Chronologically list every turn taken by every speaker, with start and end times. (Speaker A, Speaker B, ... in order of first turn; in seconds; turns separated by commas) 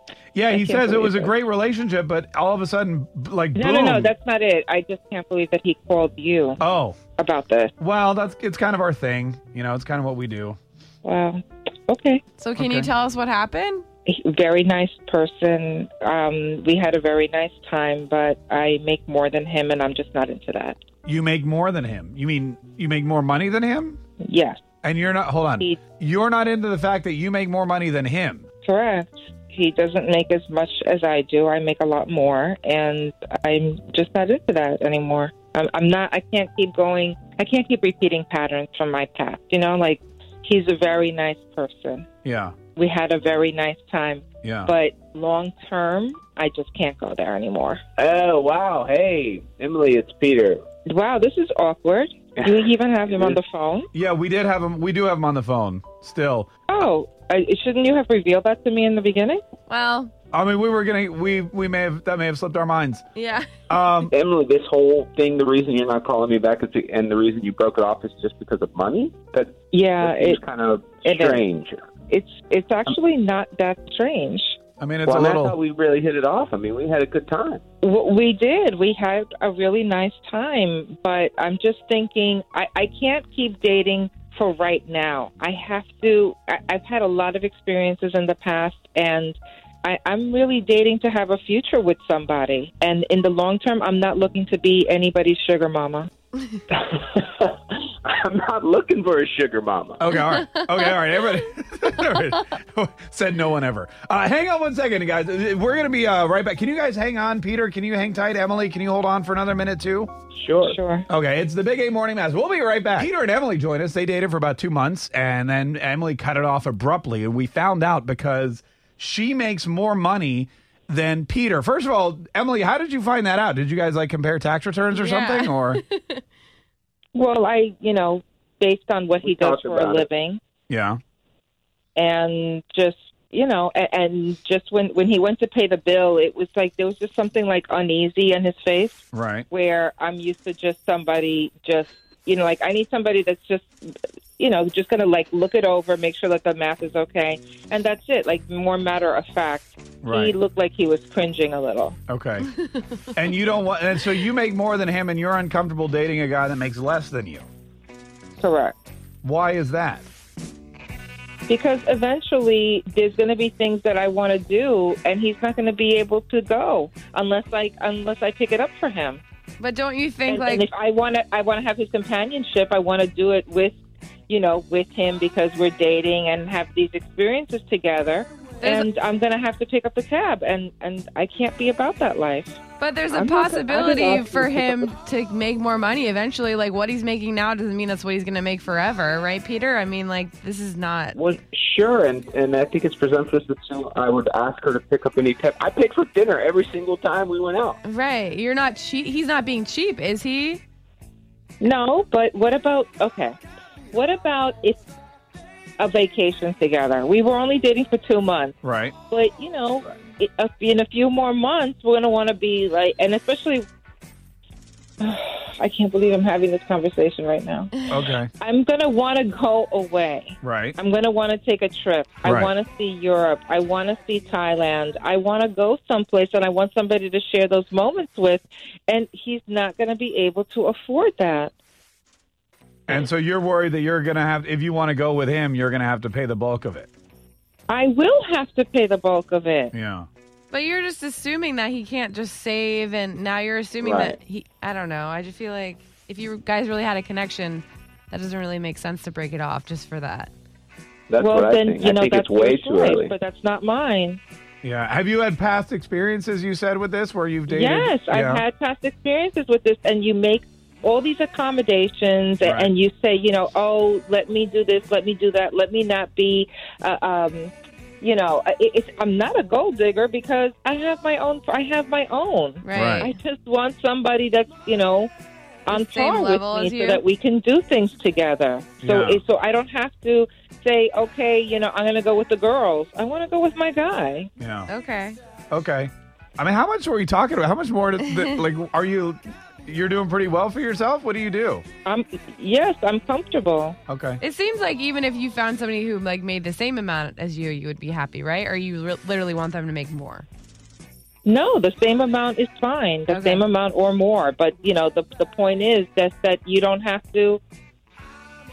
Speaker A: 0.3-4.1, Speaker B: 0.5-1.3, Speaker B: 3.5-6.6, Speaker A: 6.6-7.0, Speaker B: 7.2-7.7, Speaker A: 7.8-10.6, Speaker B: 11.0-12.2, Speaker C: 12.4-13.8, Speaker A: 12.6-12.9, Speaker B: 14.1-20.8, Speaker A: 21.0-24.0, Speaker B: 24.2-24.6, Speaker A: 24.8-28.4, Speaker B: 28.6-42.0, Speaker A: 42.2-42.5, Speaker B: 42.7-47.8, Speaker A: 44.4-44.7, Speaker D: 48.0-50.6, Speaker B: 50.9-53.9, Speaker D: 52.4-53.4, Speaker A: 53.9-56.5, Speaker B: 56.7-59.4, Speaker C: 59.7-60.1, Speaker A: 60.3-63.0, Speaker C: 63.1-63.5, Speaker A: 63.7-64.1, Speaker D: 64.1-71.9, Speaker B: 69.7-70.4, Speaker B: 71.0-71.4, Speaker B: 72.1-74.6, Speaker A: 74.8-75.5, Speaker D: 75.0-77.6, Speaker B: 77.8-96.1, Speaker D: 96.7-100.0, Speaker A: 100.0-110.1, Speaker C: 100.2-101.0, Speaker D: 110.4-110.8, Speaker B: 110.6-111.0, Speaker A: 111.1-125.8, Speaker C: 124.9-126.2, Speaker B: 127.1-130.4, Speaker D: 129.2-130.1, Speaker A: 130.7-131.0, Speaker B: 131.9-143.7, Speaker A: 139.1-139.4, Speaker B: 144.4-152.0, Speaker A: 150.0-150.3, Speaker A: 152.1-152.5, Speaker A: 153.1-157.4, Speaker B: 158.4-158.8, Speaker A: 159.2-160.1, Speaker B: 161.5-169.2, Speaker C: 169.6-170.7, Speaker B: 170.3-173.8, Speaker B: 174.3-182.6, Speaker C: 178.6-178.9, Speaker C: 182.8-191.2, Speaker B: 183.1-184.9, Speaker D: 191.1-197.8, Speaker C: 197.8-200.6, Speaker B: 201.6-203.3, Speaker B: 203.9-204.8, Speaker B: 205.8-208.5, Speaker A: 208.6-208.9, Speaker B: 209.1-213.7, Speaker B: 215.0-217.7, Speaker A: 217.9-218.3, Speaker B: 218.4-231.5, Speaker A: 220.4-220.8, Speaker A: 222.2-222.5, Speaker A: 232.9-236.9, Speaker B: 237.7-239.7, Speaker A: 239.7-240.1, Speaker C: 240.5-250.3, Speaker D: 243.8-244.2, Speaker D: 251.1-253.1, Speaker B: 251.2-254.2, Speaker A: 254.6-258.4, Speaker B: 257.5-275.1, Speaker A: 262.4-262.7, Speaker C: 272.6-273.1, Speaker A: 272.7-273.1, Speaker B: 275.6-284.3, Speaker C: 275.7-277.0, Speaker A: 278.8-279.2, Speaker A: 284.4-284.7, Speaker C: 284.7-285.2, Speaker A: 285.5-291.6, Speaker C: 288.1-288.4, Speaker B: 291.8-293.8, Speaker A: 293.9-294.2, Speaker C: 294.2-300.2, Speaker B: 301.2-307.4, Speaker C: 303.1-303.4